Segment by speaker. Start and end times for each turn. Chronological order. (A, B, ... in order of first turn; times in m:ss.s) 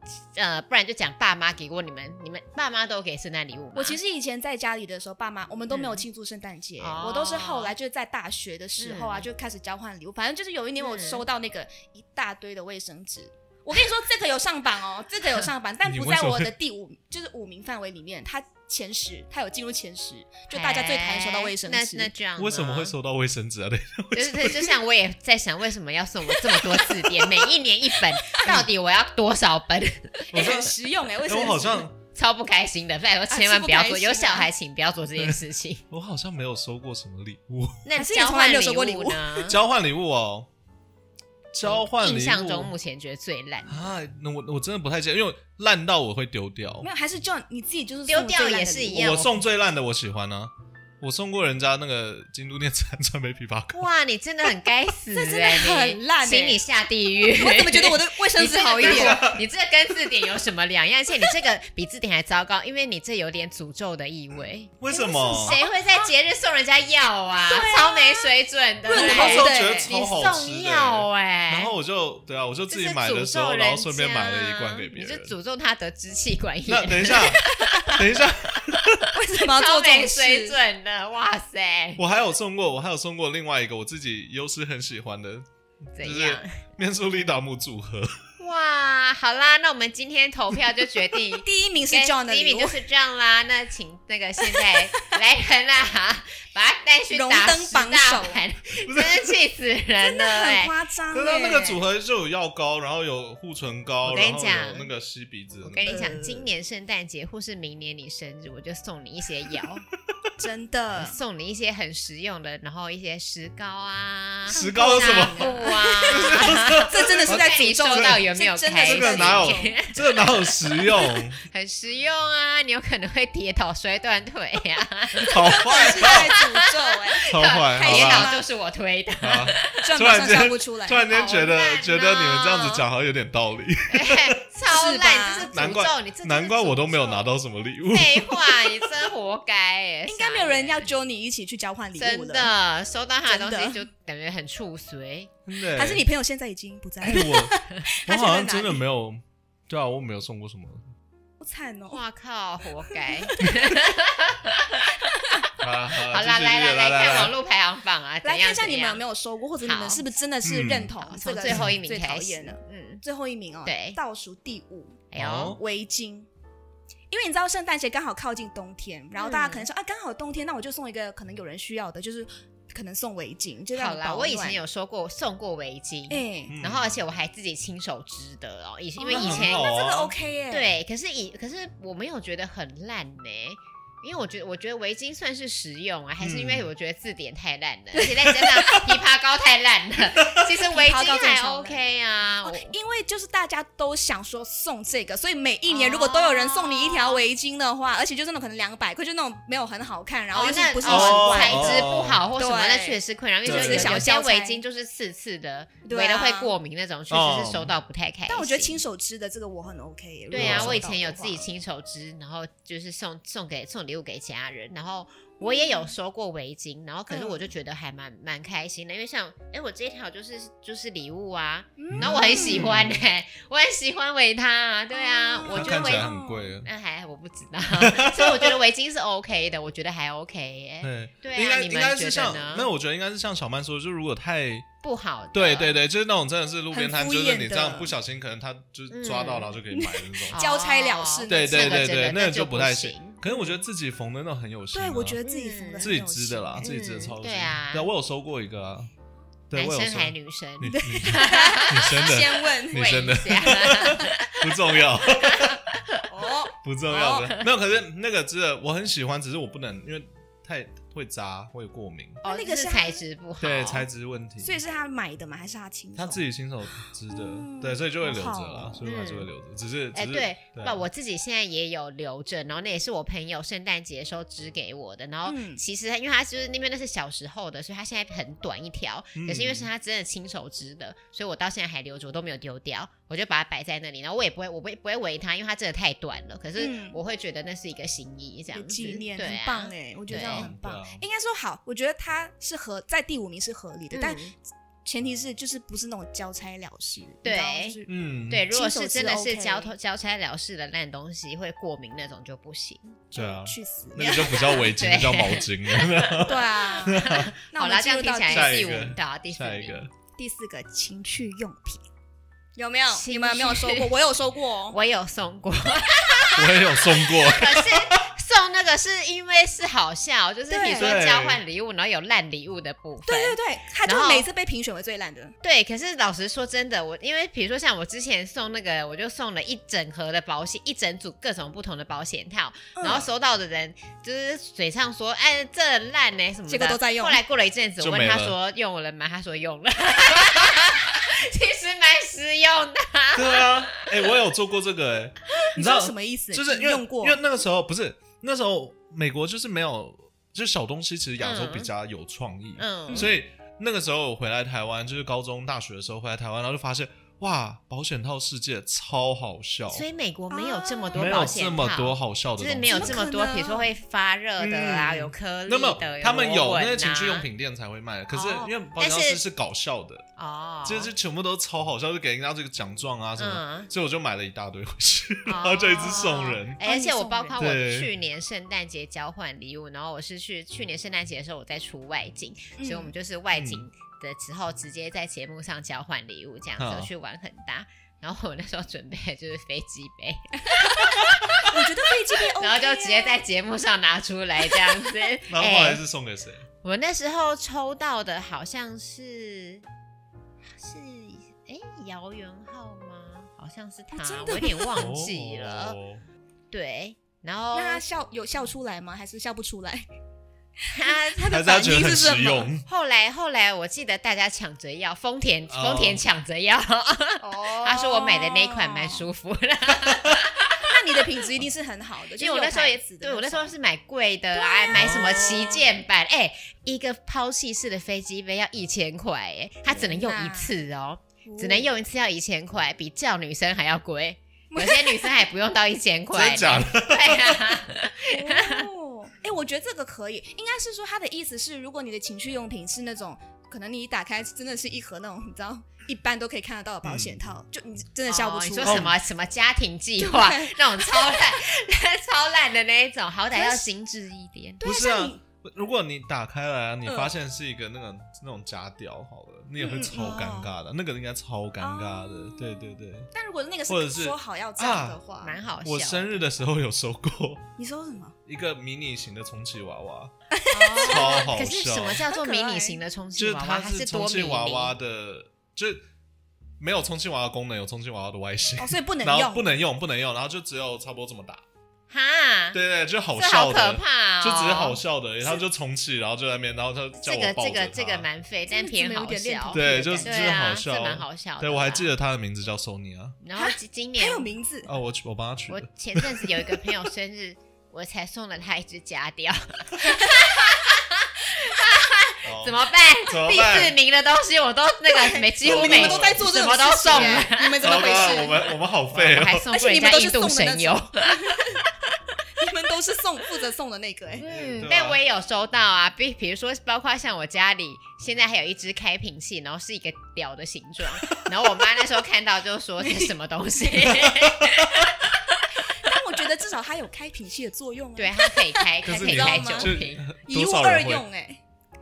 0:00.3-0:04.0 A
0:03.8-0:22.1 B
0:05.7-0:06.0 A
0:06.8-0:07.7 A
0:08.8-0:09.3 A
0:10.8-0:11.2 A
0:15.8-0:16.5 C
0:20.5-0:22.9 A
0:22.4-0:24.8 C
0:24.1-0:30.6 A
0:26.4-0:27.2 C
0:28.4-0:28.7 C
0:30.3-0:32.0 C
0:30.3-0:31.9 B
0:32.1-0:35.8 A
0:33.3-0:34.5 B
0:35.9-0:37.8 C
0:37.8-0:39.6 A
0:38.0-0:39.5 B
0:39.5-0:40.5 C
0:41.5-0:42.7 C
0:41.6-0:43.9 A
0:43.7-0:46.9 C
0:46.8-0:49.0 B
0:48.1-0:49.4 A
0:48.9-0:53.8 C
0:53.7-1:04.7 A
0:55.1-0:56.6 B
0:57.3-0:59.3 B
0:58.8-0:59.4 C
1:04.8-1:05.6 C
1:04.9-1:06.0 B
1:05.4-1:11.7 A
1:07.4-1:08.3 B
1:08.9-1:09.9 B
1:08.9-1:15.4 C
1:12.7-1:22.0 A
1:16.7-1:19.0 C
1:19.1-1:20.6 B
1:22.0-1:25.5 C
1:26.0-1:26.6 A
1:26.0-1:28.2 C
1:28.4-1:40.7 A
1:31.3-1:32.8 B
1:37.1-1:38.4 B
1:38.8-1:39.3 C
1:40.0-1:41.8 B
1:41.1-1:46.1 C
1:44.0-1:44.9 A
1:45.6-1:49.8 A
1:45.8-1:46.5 B
1:50.4-1:51.2 B
1:51.0-2:09.9 A
1:54.5-1:58.2 C
1:54.5-1:59.8 B
1:58.8-2:01.4 C
2:05.2-2:06.3 C
2:05.3-2:08.4 B
2:07.3-2:08.4 C
2:09.2-2:14.4 C
2:09.8-2:11.1 B
2:11.1-2:12.8 A
2:13.9-2:17.3 A
2:14.7-2:15.5 B
2:15.5-2:18.9 C
2:17.9-2:20.9 A
2:20.1-2:22.5 B
2:22.0-2:25.3 A
2:23.3-2:23.8 B
2:25.5-2:26.0 C
2:25.8-2:28.8 B
2:27.0-2:30.9 C
2:31.4-2:32.0 B
2:31.9-2:35.4 A
2:32.9-2:33.7 B
2:35.6-2:37.4 C
2:36.1-2:39.0 A
2:38.2-2:46.3 B
2:39.6-2:40.0 A
2:40.4-2:40.9 C
2:41.0-2:43.0 A
2:41.5-2:41.8 C
2:43.6-2:44.0 A
2:45.1-2:45.6 A
2:45.2-2:45.6 C
2:47.1-2:54.6 B
2:49.2-2:49.7 A
2:53.7-2:59.7 A
2:56.1-2:56.6 B
2:56.5-2:57.0 C
2:59.0-3:00.7 B
2:59.1-3:00.1 C
3:00.5-3:12.7 A
3:06.2-3:06.7 C
3:08.3-3:08.8 B
3:10.5-3:11.8 B
3:12.4-3:24.6 B
3:15.7-3:17.2 A
3:20.3-3:28.8 A
3:20.8-3:22.2 C
3:23.4-3:24.1 C
3:25.8-3:26.5 B
3:27.1-3:27.7 C
3:28.3-3:31.5 B
3:30.3-3:46.1 A
3:30.3-3:30.8 C
3:35.4-3:35.9 B
3:37.1-3:37.5 B
3:41.8-3:42.7 B
3:41.9-3:43.0 C
3:44.9-3:46.5 B
3:45.5-3:46.7 C
3:46.6-3:52.7 A
3:47.8-3:48.6 C
3:50.8-3:54.7 C
3:54.8-3:55.8 A
3:55.3-4:00.4 C
3:56.7-3:57.9 B
3:58.9-3:59.5 A
3:59.7-4:01.9 B
4:00.3-4:03.2 A
4:01.3-4:05.2 C
4:03.3-4:03.6 B
4:04.7-4:06.7 B
4:05.2-4:05.9 A
4:05.8-4:08.9 C
4:06.6-4:07.9 A
4:09.5-4:15.7 C
4:09.5-4:14.5 A
4:10.7-4:13.0 B
4:15.1-4:16.0 A
4:16.1-4:17.3 B
4:16.6-4:22.2 C
4:22.2-4:23.0 B
4:22.2-4:23.9 A
4:23.4-4:24.6 C
4:24.4-4:26.2 B
4:26.0-4:30.8 C
4:27.1-4:28.8 B
4:28.8-4:29.3 A
4:29.9-4:50.5 A
4:35.2-4:35.6 B
4:39.2-4:39.7 C
4:46.6-4:47.0 B
4:48.5-4:54.3 B
4:50.1-4:51.0 C
4:53.9-4:54.3 A
4:54.8-4:57.9 B
4:57.2-4:57.8 A
4:57.9-4:58.5 C
4:58.3-5:03.0 A
4:58.5-4:59.7 B
5:03.1-5:07.3 C
5:03.1-5:04.6 B
5:04.0-5:06.2 A
5:06.2-5:08.8 B
5:06.8-5:09.8 A
5:08.3-5:09.9 C
5:10.2-5:11.8 B
5:12.6-5:14.8 B
5:12.9-5:13.9 A
5:14.7-5:24.3 A
5:16.4-5:18.0 C
5:20.5-5:21.0 B
5:20.8-5:21.4 C
5:23.1-5:25.4 B
5:25.4-5:43.9 A
5:32.8-5:33.1 B
5:36.5-5:37.2 B
5:37.8-5:38.4 C
5:43.2-5:59.8 C
5:45.5-5:47.2 B
5:51.2-5:51.7 A
5:52.6-5:53.1 A
5:59.7-6:07.3 A
6:00.3-6:01.2 B
6:00.9-6:03.0 C
6:02.7-6:03.7 B
6:04.4-6:10.0 C
6:08.1-6:09.2 A
6:10.2-6:10.9 A
6:10.6-6:16.6 C
6:13.2-6:13.7 A
6:15.3-6:31.6 A
6:16.6-6:17.4 B
6:17.4-6:17.9 C
6:22.6-6:22.9 B
6:23.3-6:23.6 C
6:26.6-6:26.9 C
6:30.6-6:30.8 B
6:31.4-6:33.2 B
6:32.4-6:35.8 A
6:35.3-6:36.5 C
6:36.6-6:39.6 A
6:40.6-6:45.8 A
6:43.9-6:44.9 B
6:44.8-6:46.0 C
6:46.5-6:47.8 A
6:47.5-6:49.9 B
6:50.6-6:52.5 B
6:50.7-6:51.5 A
6:51.3-6:52.6 C
6:52.6-7:00.6 A
6:55.5-6:56.0 C
6:57.2-6:59.1 B
7:00.6-7:03.5 B
7:02.2-7:18.7 A
7:04.4-7:04.8 B
7:04.7-7:05.7 C
7:09.7-7:10.5 B
7:11.2-7:11.7 B
7:14.5-7:15.3 B
7:16.1-7:17.6 C
7:18.0-7:28.9 B
7:26.8-7:27.2 C
7:28.1-7:34.6 A
7:28.6-7:29.0 C
7:30.0-7:31.3 B
7:33.3-7:33.7 B
7:34.6-7:35.2 B
7:34.6-7:43.1 C
7:36.8-7:37.1 B
7:39.6-7:40.5 B
7:41.6-7:45.4 B
7:43.7-7:45.0 C
7:45.2-7:46.1 A
7:45.6-7:47.4 C
7:47.6-7:48.2 B
7:48.3-7:50.1 C
7:50.3-7:51.3 B
7:50.5-7:54.7 A
7:50.8-7:52.0 C
7:52.1-7:52.8 B
7:53.2-7:55.8 C
7:56.6-8:01.4 C
7:58.6-7:59.5 B
8:01.9-8:02.6 A
8:02.5-8:08.1 C
8:03.2-8:04.8 A
8:07.0-8:11.9 A
8:08.5-8:10.4 B
8:09.5-8:13.2 C
8:13.2-8:14.3 A
8:13.4-8:14.7 B
8:14.7-8:16.7 C
8:15.5-8:27.8 A
8:19.9-8:20.2 B
8:22.2-8:23.8 C
8:24.9-8:28.5 B
8:25.4-8:29.5 C
8:28.9-8:31.6 A
8:29.5-8:31.6 B
8:32.4-8:34.2 B
8:34.2-8:45.4 A
8:34.2-8:35.0 C
8:42.8-8:43.1 B
8:44.0-8:44.9 C
8:45.8-8:51.4 B
8:48.0-8:50.1 A
8:48.8-8:51.0 C